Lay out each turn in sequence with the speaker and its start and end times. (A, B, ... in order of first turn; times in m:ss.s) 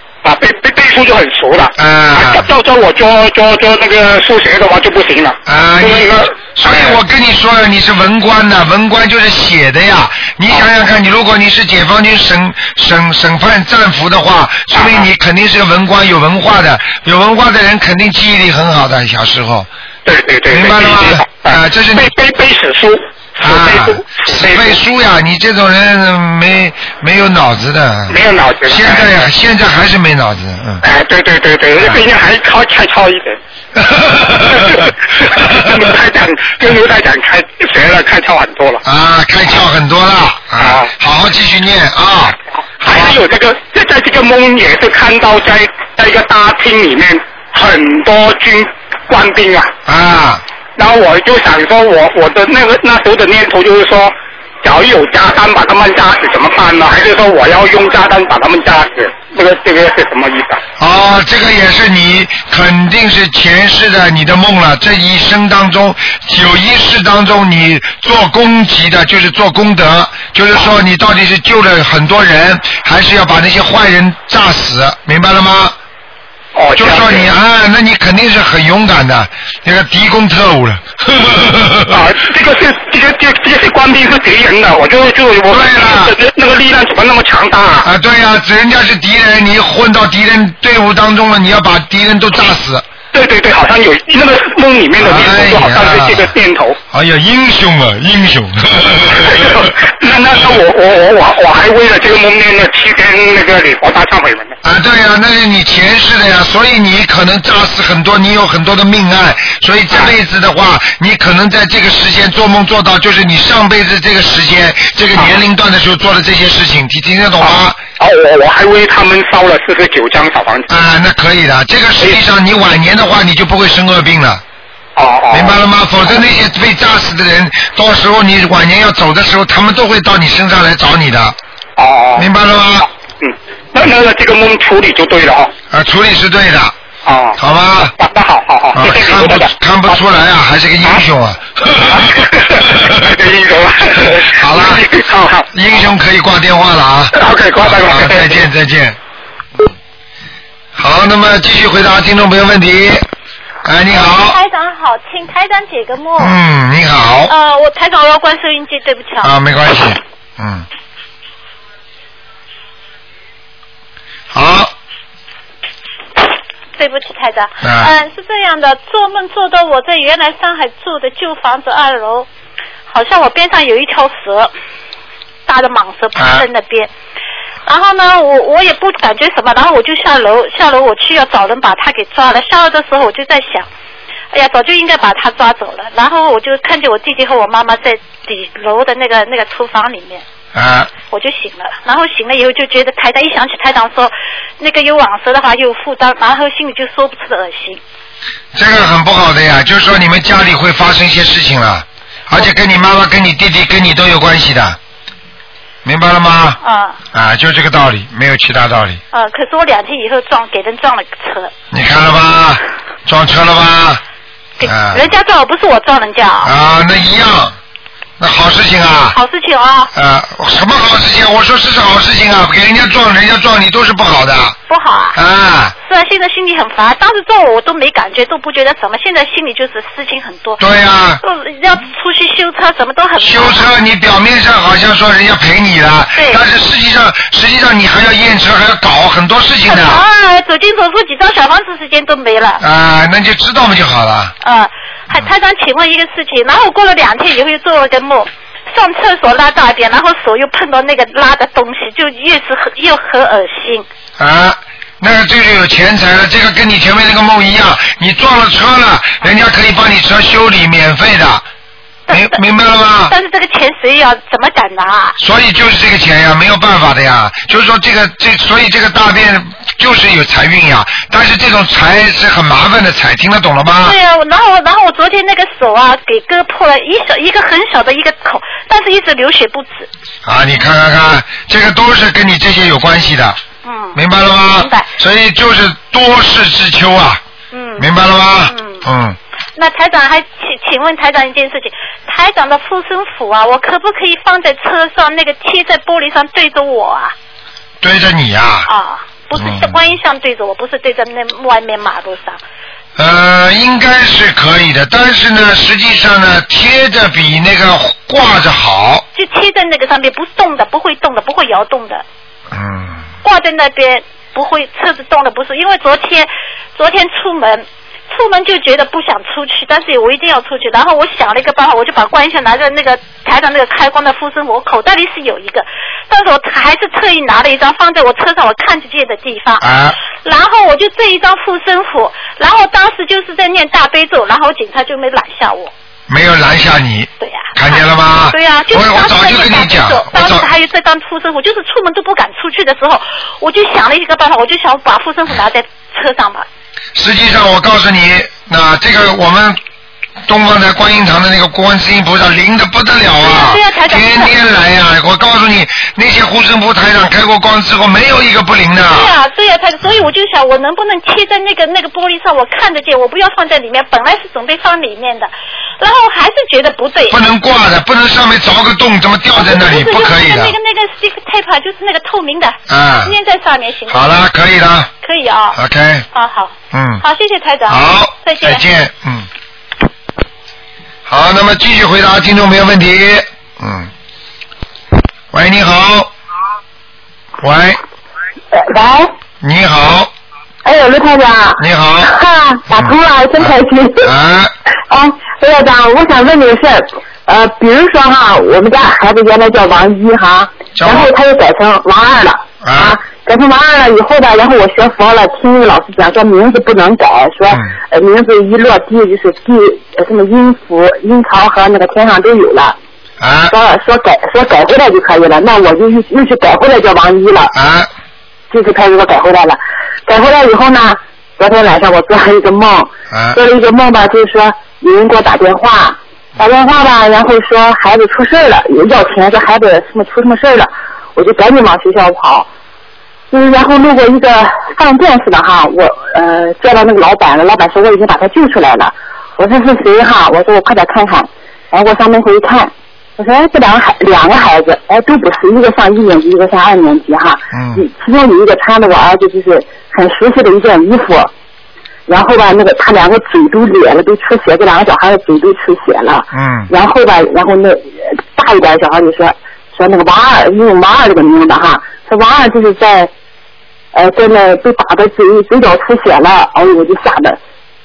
0:00.2-0:07.0 A
0:01.8-0:02.4 B
0:05.4-0:19.7 B
0:14.7-0:15.1 A
0:20.0-0:24.8 A
0:20.5-0:22.1 B
0:23.4-0:30.8 B
0:28.1-0:29.1 A
0:30.8-0:33.4 A
0:33.8-0:34.8 B
0:34.4-0:38.8 A
0:38.8-0:43.2 B
0:40.6-0:40.9 A
0:42.8-0:49.7 A
0:49.8-0:50.4 B
0:50.8-1:00.6 A
1:00.8-1:15.7 B
1:16.5-1:17.3 A
1:16.8-1:22.0 B
1:21.9-1:27.9 A
1:25.5-1:26.1 B
1:27.8-1:32.8 B
1:33.1-1:36.8 A
1:35.0-1:36.3 B
1:36.9-1:39.7 B
1:39.2-1:44.6 A
1:44.6-1:57.8 B
1:57.4-2:00.7 A
2:00.7-2:04.4 B
2:05.0-2:05.6 A
2:05.3-2:11.4 B
2:11.8-2:12.3 A
2:12.2-2:12.9 B
2:13.2-2:15.5 A
2:15.7-2:16.7 B
2:17.0-2:17.4 A
2:17.4-2:17.9 B
2:18.0-2:19.9 A
2:18.7-2:22.8 B
2:21.8-2:25.5 A
2:24.2-2:24.8 B
2:25.5-2:29.0 B
2:27.1-2:28.4 A
2:30.8-2:33.0 B
2:33.6-2:34.4 B
2:33.9-2:36.4 C
2:36.2-2:37.3 B
2:37.3-2:39.3 C
2:39.2-2:40.6 B
2:44.3-2:44.7 B
2:46.8-2:52.3 C
2:47.6-2:47.9 B
2:52.9-2:54.5 C
2:55.5-2:56.9 C
2:56.2-2:56.4 B
2:57.6-3:03.7 C
3:04.3-3:10.2 C
3:10.5-3:10.9 B
3:11.0-3:17.8 C
3:18.5-3:24.8 B
3:25.8-3:26.6 B
3:26.6-3:27.0 C
3:27.1-3:29.0 B
3:29.1-3:31.5 C
3:31.7-3:34.0 B
3:34.6-3:36.5 C
3:34.6-3:35.1 B
3:36.4-3:37.6 B
3:38.2-3:39.2 B
3:39.1-3:39.9 C
3:39.9-3:44.6 B
3:44.7-3:45.2 C
3:45.1-3:45.7 B
3:45.8-3:50.6 C
3:50.6-3:51.2 B
3:51.2-3:53.8 C
3:53.2-4:00.0 B
3:56.1-3:56.4 C
3:59.6-4:02.6 C
4:02.6-4:04.3 B
4:04.4-4:13.9 C
4:14.2-4:21.4 B
4:22.1-4:22.4 C
4:22.1-4:23.1 B
4:23.1-4:25.2 C
4:25.2-4:34.0 B
4:33.8-4:39.9 C
4:40.2-4:43.4 B
4:43.6-4:44.9 C
4:43.9-4:47.2 B
4:47.5-4:47.9 C
4:47.8-4:49.2 B
4:48.4-4:48.8 C
4:49.6-4:57.1 C
4:57.8-4:58.7 B
4:58.6-5:02.4 C
4:59.4-4:59.8 B
5:03.0-5:09.0 B
5:09.1-5:12.0 C
5:12.5-5:13.0 B
5:13.2-5:29.7 C
5:29.6-5:30.0 B
5:30.2-5:35.7 C
5:36.1-5:40.5 B
5:37.2-5:46.4 C
5:46.9-5:49.6 B
5:50.3-5:59.1 B
5:53.2-5:54.3 C
5:58.8-6:07.2 C
6:07.1-6:10.6 B
6:09.3-6:14.1 C
6:12.7-6:13.1 B
6:13.9-6:14.9 B
6:15.0-6:15.6 C
6:15.5-6:16.1 B
6:16.1-6:18.6 C
6:16.7-6:17.0 B
6:17.7-6:19.3 B
6:21.1-6:23.9 B
6:25.3-6:26.1 B
6:27.4-6:27.8 B
6:28.5-6:29.1 D
6:29.4-6:30.1 B
6:30.6-6:34.1 D
6:31.6-6:32.1 B
6:32.7-6:34.5 B
6:34.9-6:52.8 D
6:40.8-6:41.1 B
6:42.6-6:43.0 B
6:53.2-6:53.6 B
6:53.5-6:57.5 D
6:57.5-6:57.9 B
6:58.5-7:12.5 D
7:03.1-7:03.4 B
7:13.3-7:31.3 D
7:27.5-7:27.8 B
7:32.1-7:43.1 D
7:36.3-7:36.7 B
7:43.9-7:47.4 D